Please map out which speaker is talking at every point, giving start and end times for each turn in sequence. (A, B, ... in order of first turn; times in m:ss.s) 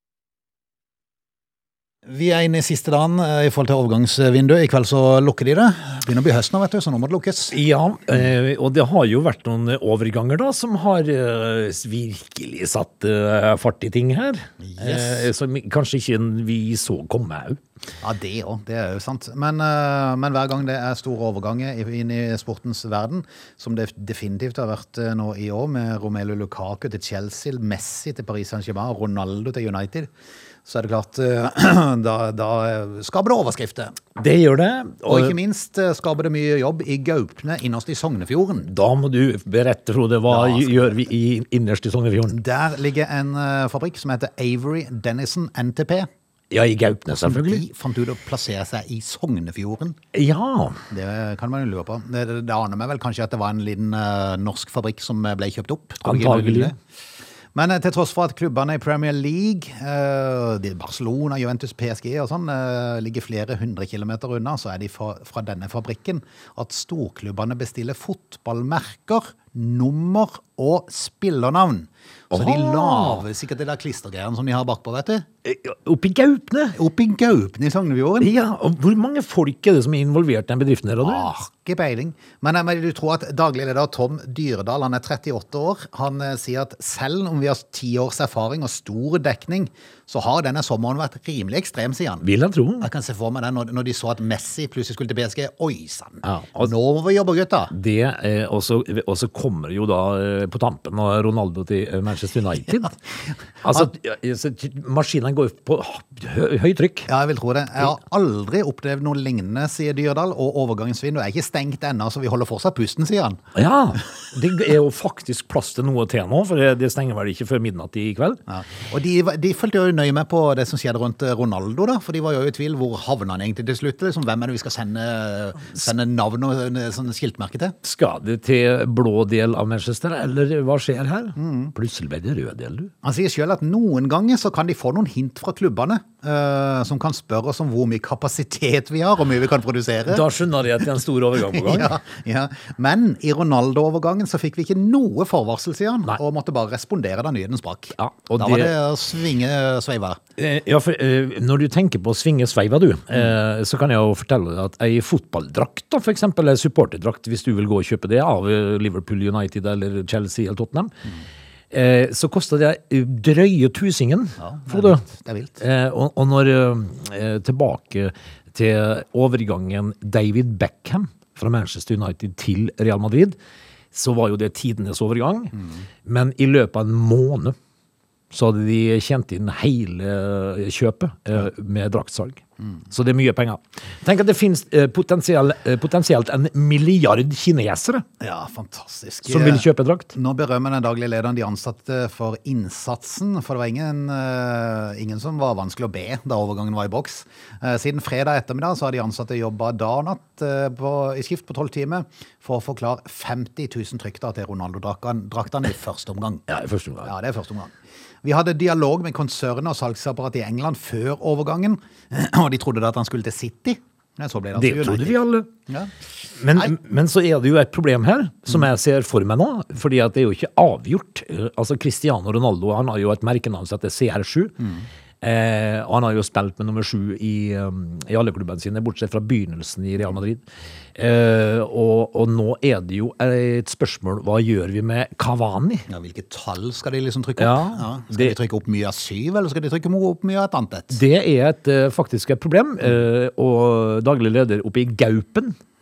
0:02.0-0:07.6 A
0:07.5-0:17.6 B
0:14.6-0:15.3 A
0:18.0-0:30.1 A
0:30.6-0:34.0 A
0:34.2-0:35.4 B
0:35.0-0:38.7 A
0:38.7-0:42.4 B
0:40.3-0:41.0 A
0:42.3-0:46.1 A
0:46.5-0:47.6 B
0:47.1-0:50.0 A
0:50.1-0:50.8 B
0:50.9-0:56.8 A
0:56.0-0:56.7 B
0:57.5-1:15.2 A
1:12.3-1:13.2 B
1:15.4-1:16.8 B
1:16.7-1:18.3 A
1:18.2-1:21.3 B
1:21.0-1:32.2 A
1:32.2-1:32.9 B
1:32.8-1:37.7 A
1:36.2-1:36.7 B
1:37.7-1:43.0 B
1:43.6-1:47.1 B
1:47.1-1:53.4 A
1:53.5-1:58.4 B
1:58.5-2:07.8 A
2:07.8-2:12.9 B
2:11.4-2:11.7 A
2:13.0-2:20.3 A
2:20.1-2:21.9 B
2:21.4-2:30.2 A
2:28.0-2:28.7 B
2:30.4-2:40.9 B
2:41.7-2:45.0 B
2:44.4-2:45.6 A
2:45.6-2:53.4 B
2:53.9-2:57.5 B
2:58.3-3:08.0 B
3:08.2-3:26.4 A
3:09.2-3:10.1 B
3:26.5-3:27.1 B
3:27.0-3:27.7 A
3:28.2-3:35.9 A
3:34.5-3:35.5 B
3:36.4-3:44.6 B
3:44.6-3:44.9 A
3:45.2-3:50.4 B
3:51.0-3:55.9 B
3:55.9-4:01.0 A
3:57.4-3:58.3 B
4:00.9-4:05.6 B